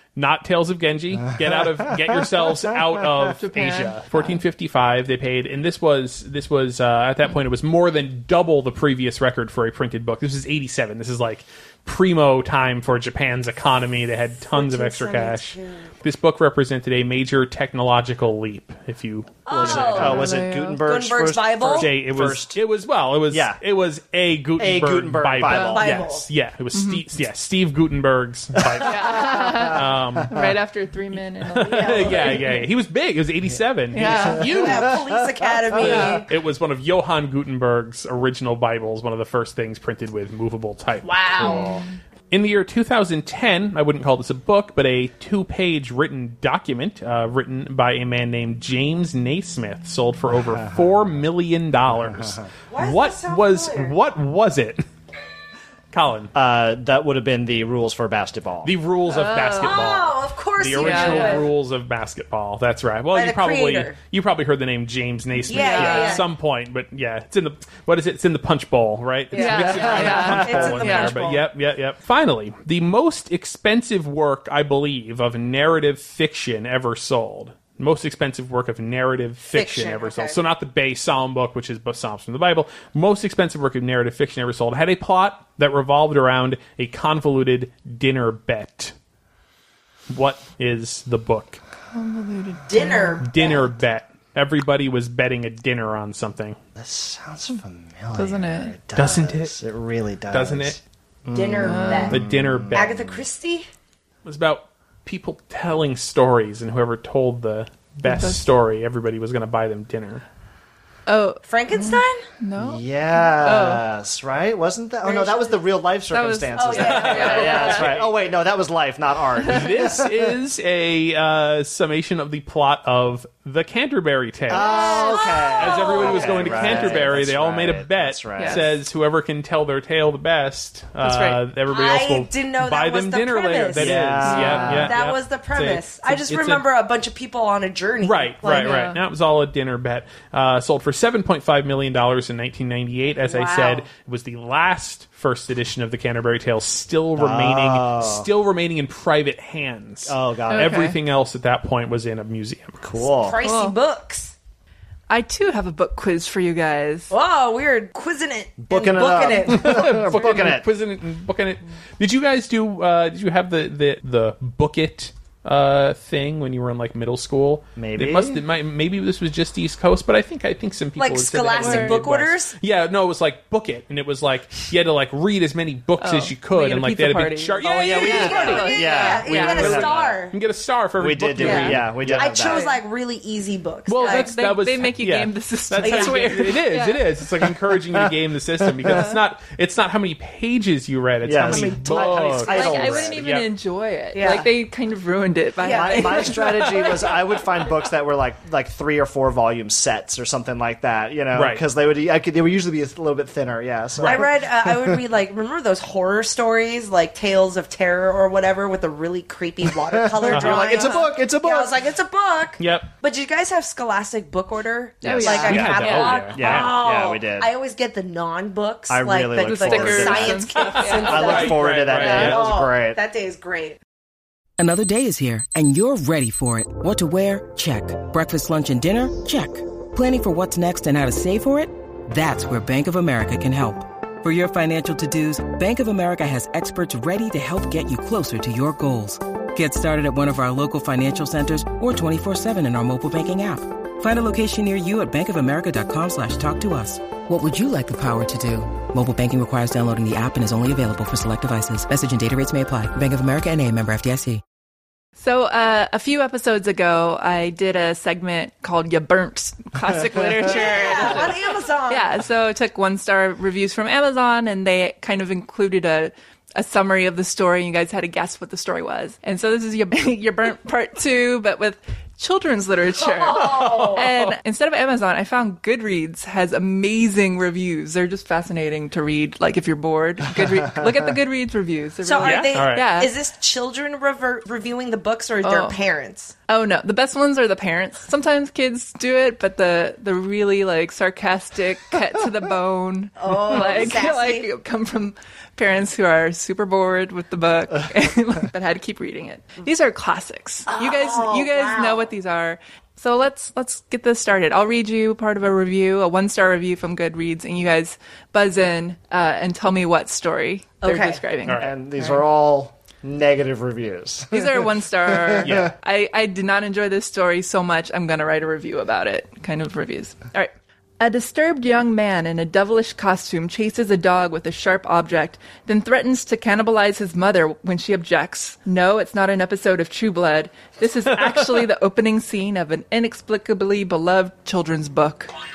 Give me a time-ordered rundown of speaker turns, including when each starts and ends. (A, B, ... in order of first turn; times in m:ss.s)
0:00.2-0:20.2 A
0:01.2-0:03.2 B
0:03.4-0:04.4 C
0:14.4-0:15.9 D
0:19.5-0:20.2 D
0:19.5-0:22.6 B
0:19.9-0:20.8 C
0:20.8-0:21.9 D
0:21.8-0:30.3 A
0:23.3-0:23.6 B
0:24.6-0:26.1 B
0:25.5-0:25.8 C
0:25.7-0:26.3 D
0:26.7-0:27.0 C
0:28.6-0:29.8 B
0:28.8-0:32.6 C
0:31.5-0:35.0 A
0:31.6-0:32.4 D
0:33.9-0:34.6 C
0:34.1-0:36.1 B
0:34.4-0:36.3 D
0:35.8-0:41.6 A
0:41.1-0:41.6 D
0:41.2-0:41.9 C
0:41.4-0:41.8 B
0:42.3-0:54.8 A
0:50.6-0:50.9 B
0:51.9-0:52.4 B
0:52.7-0:54.0 D
0:55.9-0:56.3 A
0:56.3-0:58.7 B
0:58.6-1:28.9 A
0:59.1-0:59.9 C
0:59.6-1:01.5 D
1:00.8-1:01.5 C
1:03.1-1:04.0 D
1:05.5-1:06.2 C
1:05.5-1:06.3 D
1:09.3-1:11.5 D
1:09.4-1:11.2 C
1:09.7-1:10.8 B
1:19.5-1:20.4 D
1:30.1-1:31.6 A
1:31.9-1:33.2 C
1:32.7-1:33.7 D
1:33.2-1:36.6 A
1:36.8-1:43.2 B
1:38.2-1:38.7 C
1:39.0-1:39.6 A
1:40.3-1:40.8 A
1:41.3-1:42.2 D
1:41.6-1:42.2 C
1:42.1-1:42.9 A
1:42.7-1:43.7 D
1:44.2-1:50.2 A
1:48.0-1:48.4 C
1:51.1-1:53.8 C
1:51.4-1:52.3 D
1:52.6-2:00.3 B
1:56.1-1:57.9 C
1:56.5-1:57.8 D
1:56.8-1:58.1 A
1:59.5-2:04.7 A
2:04.5-2:08.7 B
2:04.6-2:07.1 D
2:04.6-2:05.2 C
2:05.6-2:16.6 A
2:08.4-2:08.6 C
2:11.0-2:11.4 C
2:11.7-2:18.8 D
2:13.8-2:15.0 B
2:14.2-2:14.9 C
2:18.0-2:32.9 A
2:18.5-2:19.0 C
2:23.2-2:23.9 D
2:27.2-2:28.3 B
2:30.1-2:30.8 B
2:30.5-2:31.0 C
2:32.8-2:33.4 B
2:33.0-2:34.4 D
2:33.4-2:33.8 C
2:35.1-2:37.1 C
2:37.1-2:39.9 D
2:38.6-2:40.7 B
2:39.5-3:02.3 A
2:47.8-2:48.4 B
2:51.0-2:52.6 D
2:51.6-2:52.0 C
2:56.0-2:59.8 C
2:57.6-3:00.4 D
2:57.8-3:00.2 B
3:01.0-3:02.7 B
3:01.4-3:04.3 D
3:02.5-3:02.8 C
3:03.9-3:13.5 A
3:04.0-3:07.1 C
3:05.8-3:06.3 D
3:07.7-3:09.1 B
3:08.9-3:09.2 C
3:11.2-3:13.2 B
3:11.4-3:13.0 D
3:12.5-3:16.9 C
3:14.1-3:14.5 D
3:15.6-3:17.0 D
3:15.6-3:25.0 B
3:21.3-3:21.6 A
3:24.0-3:24.2 A
3:24.0-3:43.8 D
3:29.9-3:31.8 B
3:30.3-3:30.7 A
3:30.3-3:31.1 C
3:32.6-3:32.9 A
3:35.0-3:36.2 C
3:35.0-3:36.7 A
3:35.1-3:35.7 B
3:36.3-3:37.5 B
3:38.9-3:40.5 B
3:39.4-3:41.5 C
3:40.6-3:42.5 A
3:41.0-3:43.0 B
3:44.6-4:14.4 E
4:15.2-4:21.4 C
4:20.4-4:22.0 D
4:21.9-4:43.1 C
4:33.0-4:34.0 D
4:33.4-4:34.4 A
4:40.4-4:41.0 B
4:42.0-4:46.4 D
4:42.2-4:42.9 A
4:45.4-4:45.8 C
4:46.5-5:12.2 C
4:53.2-4:54.5 D
5:00.7-5:02.1 D
5:10.8-5:11.2 D
5:11.4-5:11.7 A
5:11.6-5:15.7 B
5:14.3-5:35.3 C
5:15.4-5:15.7 A